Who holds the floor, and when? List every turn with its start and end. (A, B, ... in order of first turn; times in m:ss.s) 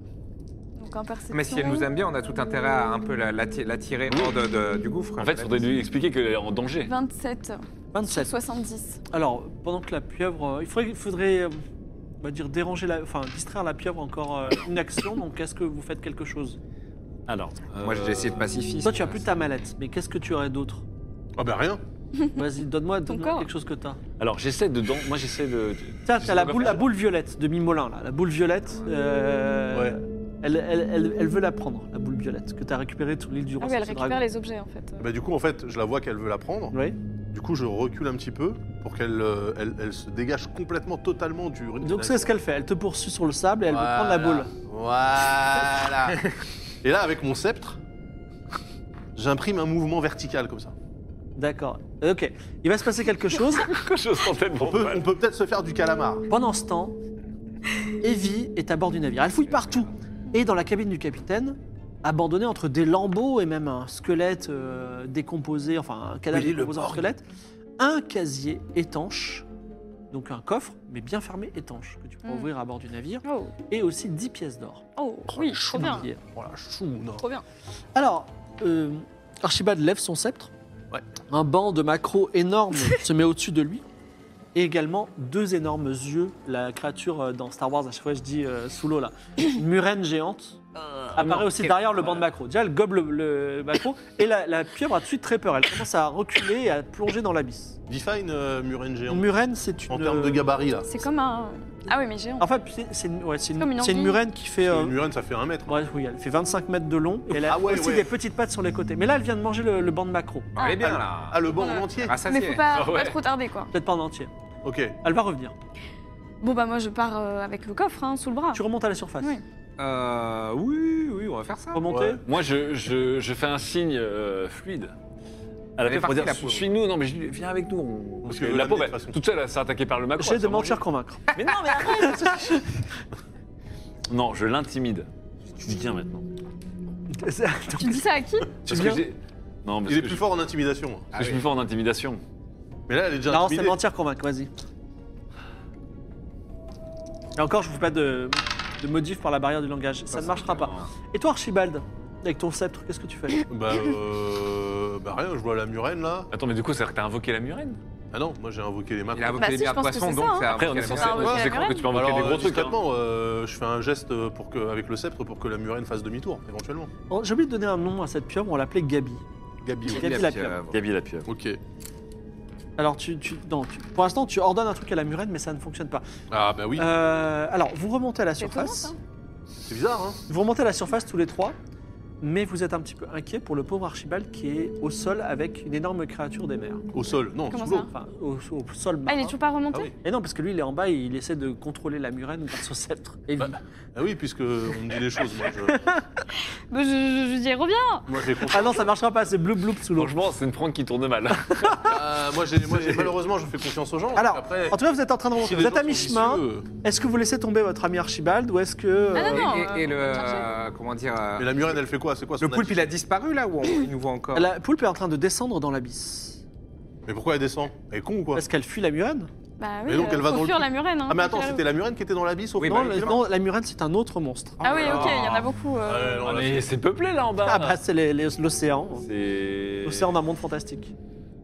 0:00.8-0:01.9 A
0:01.3-0:05.7 B
0:05.2-0:06.9 C
0:06.8-0:09.0 A
0:07.9-0:08.3 D
0:09.1-0:11.6 D
0:12.2-0:16.6 D
0:17.3-0:18.5 C
0:17.8-0:19.3 B
0:18.8-0:20.8 D
0:21.4-0:21.8 E
0:22.4-0:24.0 D
0:23.1-0:23.5 A
0:24.2-0:26.9 C
0:26.1-0:34.2 D
0:29.7-0:30.0 E
0:33.6-0:35.1 A
0:35.0-0:36.8 E
0:36.7-0:37.0 D
0:37.3-0:42.3 E
0:41.8-0:44.5 D
0:43.7-0:46.2 E
0:46.8-0:47.8 E
0:49.2-0:50.7 E
0:51.4-0:53.7 D
0:53.6-0:55.1 C
0:54.6-0:56.3 E
0:56.3-0:57.0 D
0:58.0-1:07.2 D
1:06.3-1:07.1 E
1:07.8-1:09.5 D
1:10.1-1:14.9 D
1:13.2-1:13.5 A
1:15.0-1:16.1 A
1:15.4-1:17.2 E
1:15.6-1:16.2 D
1:17.2-1:17.4 A
1:18.0-1:20.5 D
1:21.3-1:23.8 D
1:24.6-1:30.6 D
1:30.8-1:32.2 C
1:31.2-1:37.8 D
1:37.9-1:39.3 E
1:39.1-1:40.4 D
1:39.9-1:40.9 E
1:40.8-1:42.5 A
1:42.4-1:44.9 D
1:43.6-1:44.2 A
1:44.6-1:45.8 E
1:45.7-1:50.6 D
1:47.3-1:48.1 E
1:50.6-1:51.5 B
1:50.6-1:50.8 A
1:50.8-1:52.2 E
1:51.5-1:53.7 A
1:52.0-1:52.6 B
1:52.7-1:53.2 C
1:53.7-1:54.3 D
1:54.6-1:55.0 E
1:55.0-1:55.5 D
1:56.4-1:58.6 A
1:58.5-1:59.4 D
1:59.8-2:01.9 B
2:01.7-2:02.2 D
2:01.9-2:02.2 E
2:02.2-2:04.9 C
2:05.8-2:10.8 C
2:05.8-2:06.7 B
2:08.2-2:09.2 E
2:10.2-2:11.2 D
2:11.4-2:12.4 C
2:11.5-2:12.3 A
2:12.1-2:12.6 D
2:14.1-2:16.3 C
2:17.1-2:19.0 D
2:17.8-2:18.5 A
2:18.7-2:20.2 C
2:19.9-2:21.1 E
2:21.1-2:21.4 B
2:21.1-2:22.2 C
2:22.9-2:23.8 E
2:23.3-2:24.5 D
2:27.4-2:33.5 D
2:30.3-2:30.7 B
2:30.4-2:30.8 C
2:33.5-2:36.3 E
2:36.3-2:37.8 C
2:38.1-2:39.6 E
2:39.2-2:41.5 B
2:39.4-2:41.9 A
2:40.5-2:42.8 C
2:41.9-2:46.9 E
2:47.1-2:49.2 D
2:49.6-2:50.2 E
2:49.9-2:50.6 D
2:49.9-2:50.8 B
2:50.7-2:51.3 C
2:51.3-2:51.6 E
2:52.8-2:56.0 D
2:56.3-2:56.9 E
2:56.8-2:58.9 D
2:58.4-2:59.0 A
2:59.7-3:00.2 E
3:00.3-3:01.6 D
3:02.2-3:06.8 D
3:06.9-3:07.9 E
3:07.5-3:07.9 A
3:07.8-3:09.4 D
3:09.1-3:09.9 A
3:10.0-3:13.6 D
3:13.4-3:15.9 E
3:15.7-3:16.2 D
3:16.7-3:18.3 A
3:18.1-3:18.9 E
3:18.5-3:20.1 D
3:20.0-3:22.0 C
3:21.6-3:21.9 D
3:21.8-3:24.8 E
3:22.7-3:23.1 C
3:24.2-3:29.6 D
3:25.3-3:26.7 E
3:29.1-3:30.5 A
3:29.2-3:31.8 B
3:31.4-3:33.0 E
3:32.4-3:34.5 B
3:34.3-3:36.4 D
3:37.1-3:38.4 E
3:38.3-3:39.3 D
3:39.6-3:41.7 A
3:39.9-3:43.2 E
3:42.6-3:43.2 B
3:42.6-3:44.8 D
3:44.6-3:46.3 A
3:44.7-3:46.7 E
3:44.8-3:45.2 C
3:46.2-3:47.8 C
3:47.4-3:49.1 D
3:49.0-3:50.1 C
3:49.8-3:50.9 D